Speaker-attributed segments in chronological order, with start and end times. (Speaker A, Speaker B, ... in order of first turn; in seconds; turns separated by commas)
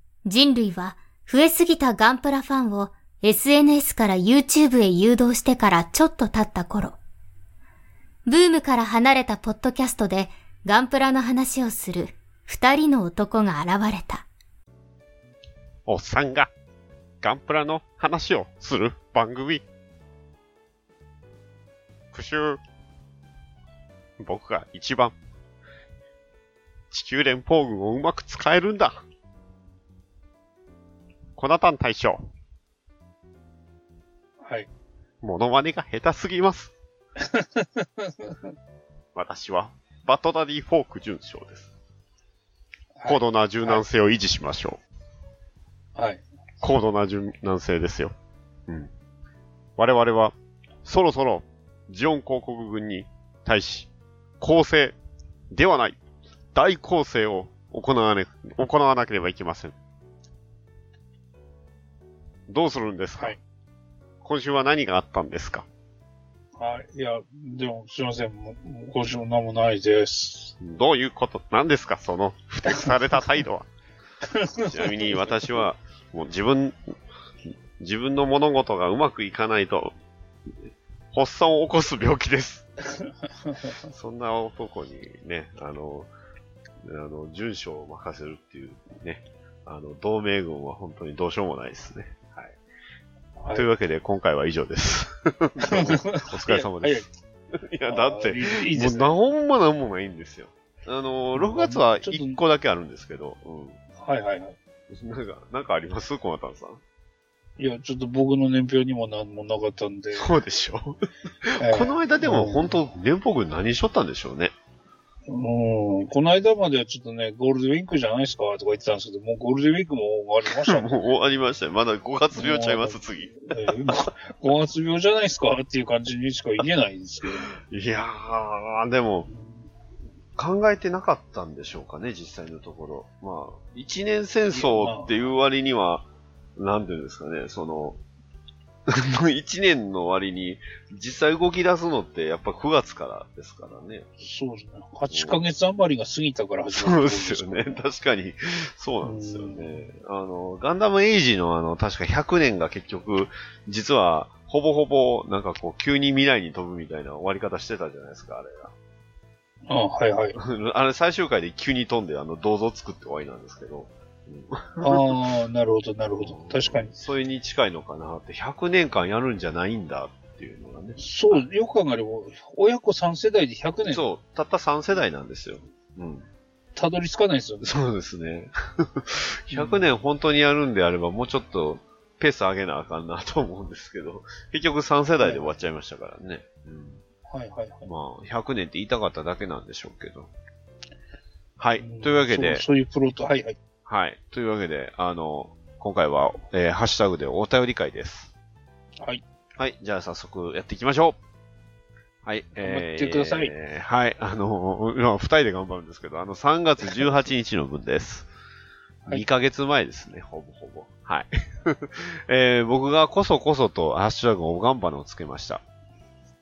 Speaker A: 0.2-7.0, Speaker A: 8.3-14.3, Speaker B: 15.9-16.5, Speaker B: 17.2-19.6, Speaker B: 22.1-22.6, Speaker B: 24.2-25.1, Speaker B: 26.9-29.0, Speaker B: 31.4-32.3, Speaker C: 34.4-34.7, Speaker B: 35.2-36.7, Speaker C: 37.2-38.5, Speaker B: 39.1-41.7, Speaker C: 43.0-43.8, Speaker B: 43.1-44.8, Speaker C: 46.0-46.2, Speaker B: 46.6-48.1, Speaker B: 49.8-50.3, Speaker B: 50.9-55.0, Speaker B: 55.5-56.0, Speaker B: 56.5-59.8, Speaker B: 62.5-63.4, Speaker B: 64.2-65.7, Speaker C: 66.6-70.5, Speaker B: 70.6-73.7, Speaker C: 74.2-75.3, Speaker B: 74.7-76.9, Speaker B: 77.8-79.9, Speaker B: 81.1-82.7, Speaker C: 83.0-83.8, Speaker B: 83.9-86.1, Speaker B: 86.8-92.6, Speaker C: 93.4-93.7, Speaker B: 93.5-103.8, Speaker C: 95.6-97.1, Speaker C: 97.9-99.2, Speaker C: 101.3-102.4, Speaker C: 104.0-104.6, Speaker B: 104.9-106.8, Speaker C: 107.6-110.3, Speaker B: 110.2-114.5, Speaker C: 111.6-112.8, Speaker C: 115.3-120.9, Speaker B: 120.6-124.0, Speaker C: 122.3-127.5, Speaker B: 127.5-129.3, Speaker C: 129.3-129.7, Speaker B: 130.4-138.0, Speaker C: 134.5-135.1, Speaker B: 138.9-144.1, Speaker C: 144.2-147.8, Speaker B: 145.1-145.4, Speaker B: 146.7-158.7, Speaker C: 149.0-149.8, Speaker C: 159.7-160.4, Speaker B: 160.3-165.1, Speaker C: 164.8-166.9, Speaker B: 166.2-171.4, Speaker C: 171.0-174.0, Speaker B: 173.9-176.3, Speaker C: 176.8-177.8, Speaker B: 177.6-187.0, Speaker C: 179.5-179.8, Speaker C: 185.2-185.5, Speaker C: 187.3-187.9, Speaker B: 187.8-190.3, Speaker B: 191.6-192.6, Speaker C: 191.8-193.6, Speaker B: 193.9-198.3, Speaker B: 199.6-201.2, Speaker B: 202.2-208.3, Speaker C: 202.6-203.5, Speaker B: 209.1-215.6